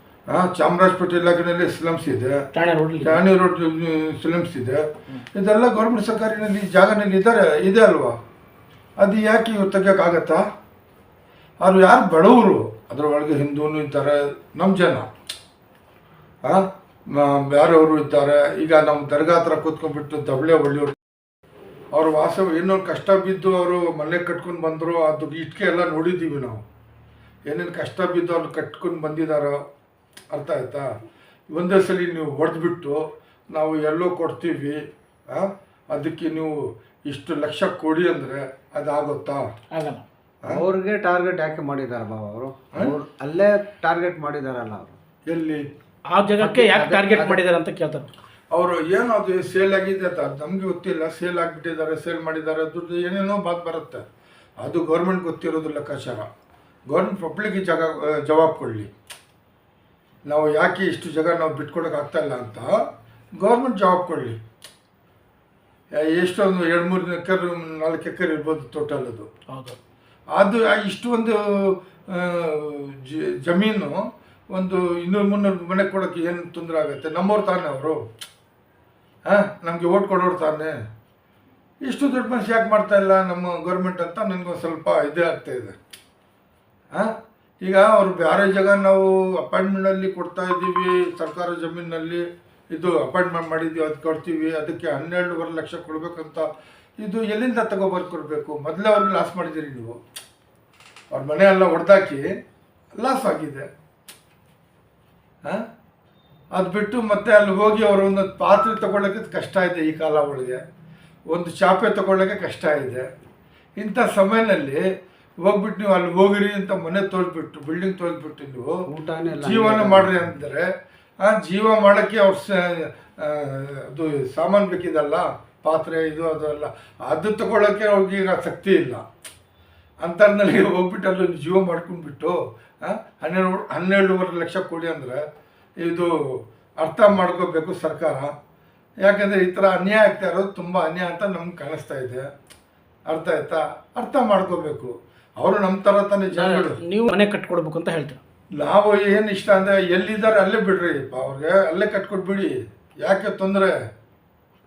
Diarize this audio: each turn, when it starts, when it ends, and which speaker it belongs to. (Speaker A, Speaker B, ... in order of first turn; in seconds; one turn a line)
Speaker A: 0.3-2.4
Speaker B: 2.5-3.2
Speaker A: 3.0-8.2
Speaker A: 9.0-10.4
Speaker A: 11.6-15.1
Speaker A: 16.4-20.9
Speaker A: 21.9-26.6
Speaker A: 27.5-29.6
Speaker A: 30.3-30.9
Speaker A: 31.5-39.5
Speaker B: 39.7-40.0
Speaker C: 40.5-45.0
Speaker A: 45.2-45.7
Speaker B: 46.1-48.1
Speaker C: 46.4-47.4
Speaker A: 48.5-54.0
Speaker A: 54.6-56.3
Speaker A: 56.9-58.9
Speaker A: 60.2-62.8
Speaker A: 63.4-64.4
Speaker A: 65.9-69.3
Speaker B: 69.5-69.8
Speaker A: 70.3-74.0
Speaker A: 74.5-78.0
Speaker A: 79.3-80.7
Speaker A: 81.8-85.8
Speaker A: 86.9-96.5
Speaker A: 97.0-100.0
Speaker A: 101.1-102.3
Speaker A: 103.0-103.7
Speaker A: 106.5-110.6
Speaker A: 111.3-113.0
Speaker A: 113.8-114.8
Speaker A: 115.4-118.8
Speaker C: 118.9-120.1
Speaker A: 119.4-120.7
Speaker A: 121.2-129.0
Speaker A: 130.0-135.2
Speaker A: 135.8-138.3
Speaker A: 139.0-142.3
Speaker A: 143.1-146.8
Speaker B: 146.3-148.2
Speaker A: 148.6-153.8